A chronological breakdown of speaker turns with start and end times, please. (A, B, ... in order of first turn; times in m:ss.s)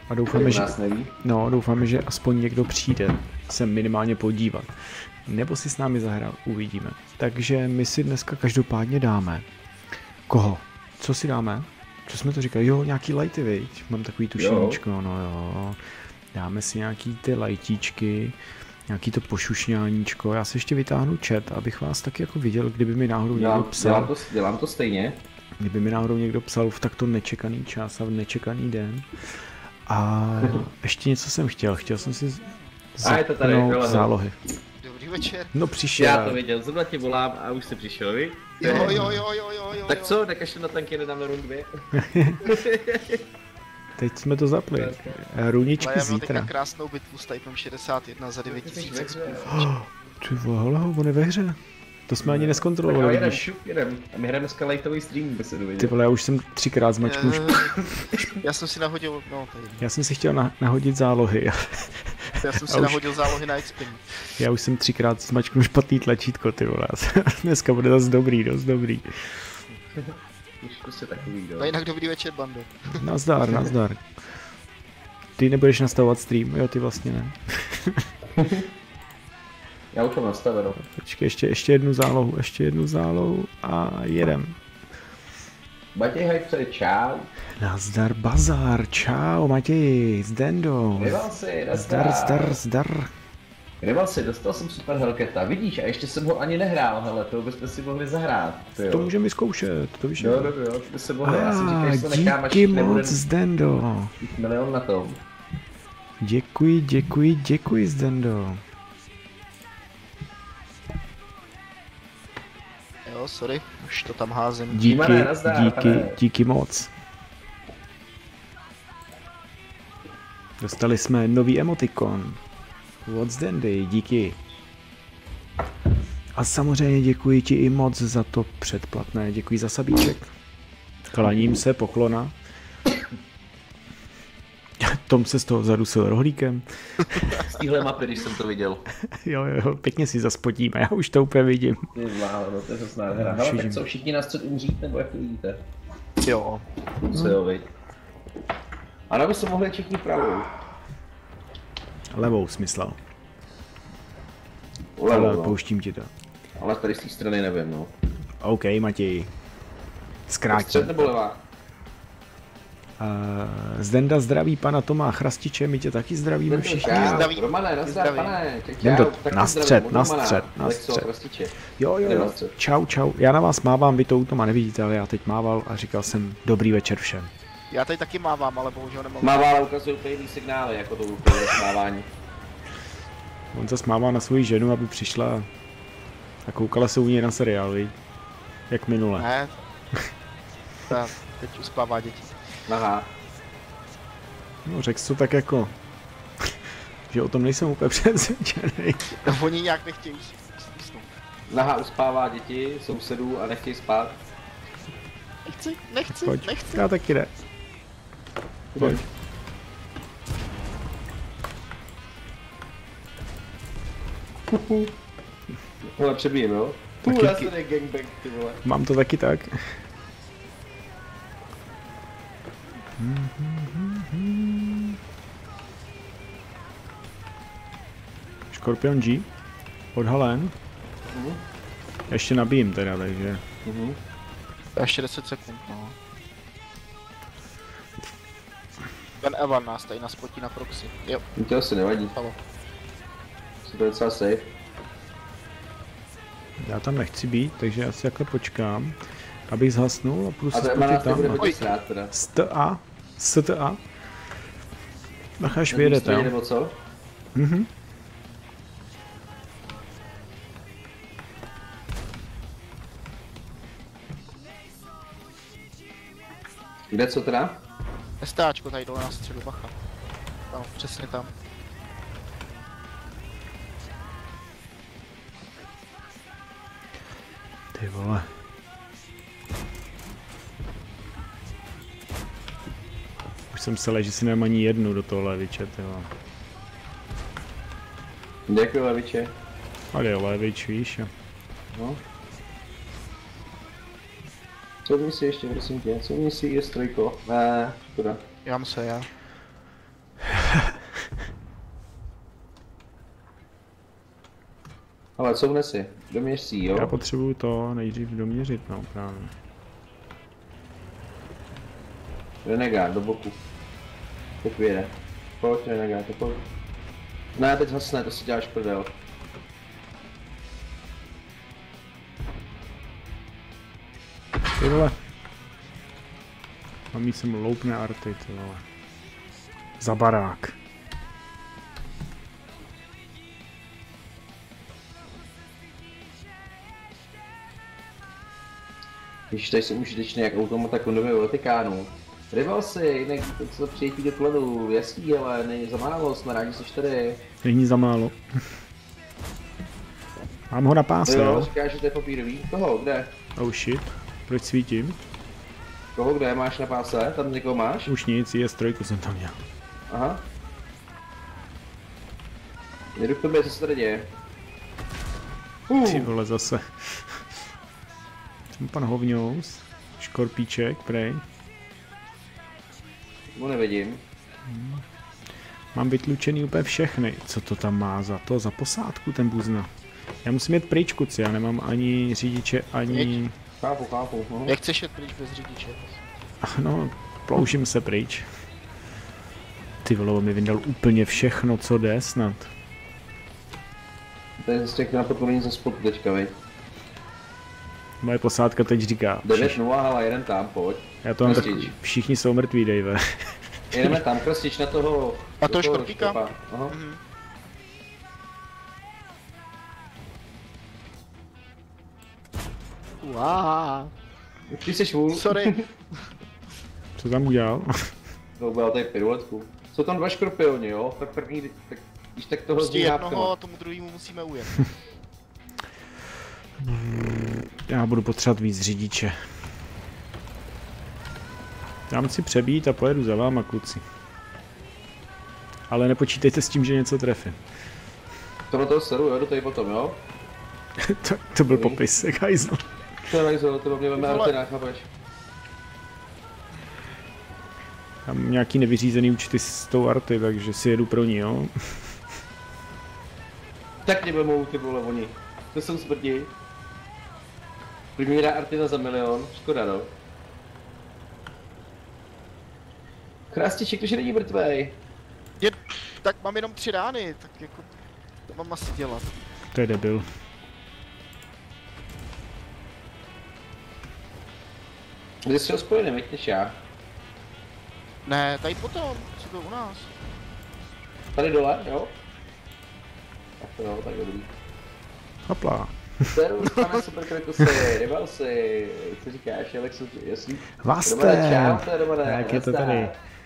0:00.1-0:09.4 A
0:00.3-0:01.1 B
0:10.3-0:15.8 A
0:14.4-0:14.8 B
0:16.3-0:18.4 A
0:18.9-0:24.1 A
0:23.3-0:25.2 B
0:25.6-0:34.4 A
0:33.0-0:34.1 B
0:34.8-0:35.5 C
0:35.5-0:36.4 A
0:36.0-0:39.1 B
0:38.6-0:40.2 C
0:38.6-0:39.2 A
0:39.9-0:41.8 B
0:41.9-0:42.5 A
0:42.4-0:43.2 B
0:44.0-0:46.5 A
0:44.7-0:45.2 B
0:45.8-0:49.7 C
0:48.4-0:49.6 B
0:49.5-0:53.4 A
0:52.2-0:56.0 B
0:55.8-0:58.2 A
0:57.0-0:59.8 C
0:59.8-1:03.3 A
1:02.4-1:04.1 C
1:04.3-1:09.6 A
1:10.0-1:11.8 B
1:11.6-1:13.0 C
1:12.9-1:14.1 A
1:15.4-1:18.1 A
1:18.3-1:18.7 B
1:19.9-1:20.8 B
1:20.8-1:24.6 A
1:25.9-1:27.3 B
1:27.6-1:33.1 A
1:30.9-1:32.6 B
1:33.8-1:39.1 B
1:38.9-1:40.5 A
1:40.2-1:43.2 B
1:41.2-1:44.1 A
1:44.2-1:45.2 B
1:46.2-1:48.6 A
1:53.0-1:54.8 C
1:54.7-1:56.9 A
1:54.8-1:56.2 B
2:00.6-2:02.4 A
2:03.0-2:04.4 A
2:06.3-2:10.3 A
2:11.1-2:12.3 A
2:14.8-2:17.5 A
2:17.4-2:18.8 B
2:19.0-2:21.9 A
2:21.9-2:25.6 B
2:23.1-2:23.8 A
2:26.2-2:26.6 C
2:27.0-2:27.7 B
2:29.1-2:30.5 B
2:32.1-2:33.0 A
2:35.0-2:35.6 B
2:35.1-2:36.1 A
2:36.6-2:37.9 B
2:38.4-2:39.3 A
2:40.3-2:41.1 A
2:40.5-2:41.4 B
2:43.0-2:47.3 A
2:46.5-2:52.5 B
2:46.9-2:48.4 C
2:48.8-2:51.1 A
2:51.7-2:57.3 A
2:57.7-2:59.5 C
2:59.2-3:02.1 B
3:03.5-3:05.5 A
3:06.4-3:07.9 A
3:08.7-3:09.3 A
3:09.2-3:09.5 C
3:10.9-3:12.3 C
3:12.7-3:13.1 B
3:14.6-3:15.7 A
3:17.1-3:19.2 A
3:19.2-3:21.1 C
3:21.5-3:24.2 B
3:25.4-3:26.8 C
3:26.1-3:27.3 A
3:28.7-3:29.0 B
3:28.8-3:29.0 A
3:34.5-3:34.9 B
3:35.9-3:38.6 B
3:37.1-3:37.3 A
3:38.6-3:39.8 A
3:43.0-3:45.0 A
3:48.5-3:49.3 A
3:49.9-3:50.5 A
3:51.1-3:51.4 B
3:52.1-3:53.4 A
3:53.6-3:54.0 B
3:54.8-3:55.9 C
3:59.2-4:01.2 C
4:01.4-4:02.1 B
4:03.6-4:04.5 B
4:06.6-4:09.0 A
4:09.5-4:11.6 A
4:10.5-4:12.1 B
4:12.1-4:13.8 A
4:15.4-4:16.3 A
4:15.7-4:16.8 B
4:17.3-4:17.7 A
4:26.9-4:27.6 B
4:28.2-4:29.7 C
4:30.5-4:31.3 C
4:37.7-4:38.3 A
4:43.5-4:46.1 A
4:48.5-4:49.3 B
4:49.9-4:51.1 A
4:51.7-4:52.0 B
4:54.8-4:58.2 B
4:58.4-4:59.1 C
5:00.3-5:00.7 A
5:05.2-5:07.0 B
5:06.7-5:09.3 A
5:12.4-5:13.4 B
5:14.4-5:16.4 B
5:17.3-5:18.9 B
5:24.6-5:25.0 A
5:26.9-5:28.6 A
5:29.8-5:30.6 A
5:39.3-5:47.2 B
5:47.4-5:48.2 A
5:50.5-5:51.5 A
5:51.0-5:53.1 B
5:53.4-5:55.0 A
5:55.9-5:57.9 B
5:57.8-5:59.4 A
5:59.9-6:00.2 B
6:02.9-6:04.1 B
6:05.7-6:06.1 B
6:05.8-6:07.2 A
6:08.6-6:11.2 A
6:13.3-6:14.0 B
6:14.5-6:14.8 A
6:15.7-6:19.7 A
6:20.2-6:23.3 A
6:22.9-6:23.2 C
6:23.6-6:24.6 B
6:24.5-6:26.0 C
6:26.4-6:28.3 A
6:29.8-6:32.5 A
6:34.4-6:36.3 B
6:38.0-6:39.6 A
6:39.2-6:41.7 B
6:41.0-6:43.9 A
6:43.7-6:46.7 B
6:45.4-6:47.0 C
6:53.0-6:53.9 C
6:54.5-6:55.7 B
6:55.1-6:55.6 C
6:57.0-6:57.9 A
6:58.4-7:03.3 B
7:02.6-7:04.7 C
7:06.6-7:09.3 A
7:11.9-7:13.8 A
7:15.7-7:17.4 A
7:18.5-7:20.0 B
7:20.8-7:22.7 A
7:21.5-7:21.8 B
7:23.1-7:24.9 B
7:24.0-7:24.3 C
7:28.0-7:31.9 A
7:33.8-7:36.3 B
7:38.0-7:39.9 B
7:43.3-7:44.8 B
7:45.4-7:47.7 C
7:48.3-7:49.1 C
7:49.5-7:50.1 A
7:55.2-7:56.6 B
7:58.0-7:59.9 C
8:01.1-8:01.9 B
8:03.4-8:04.3 B
8:05.3-8:06.7 A
8:06.1-8:13.0 B
8:10.6-8:12.9 A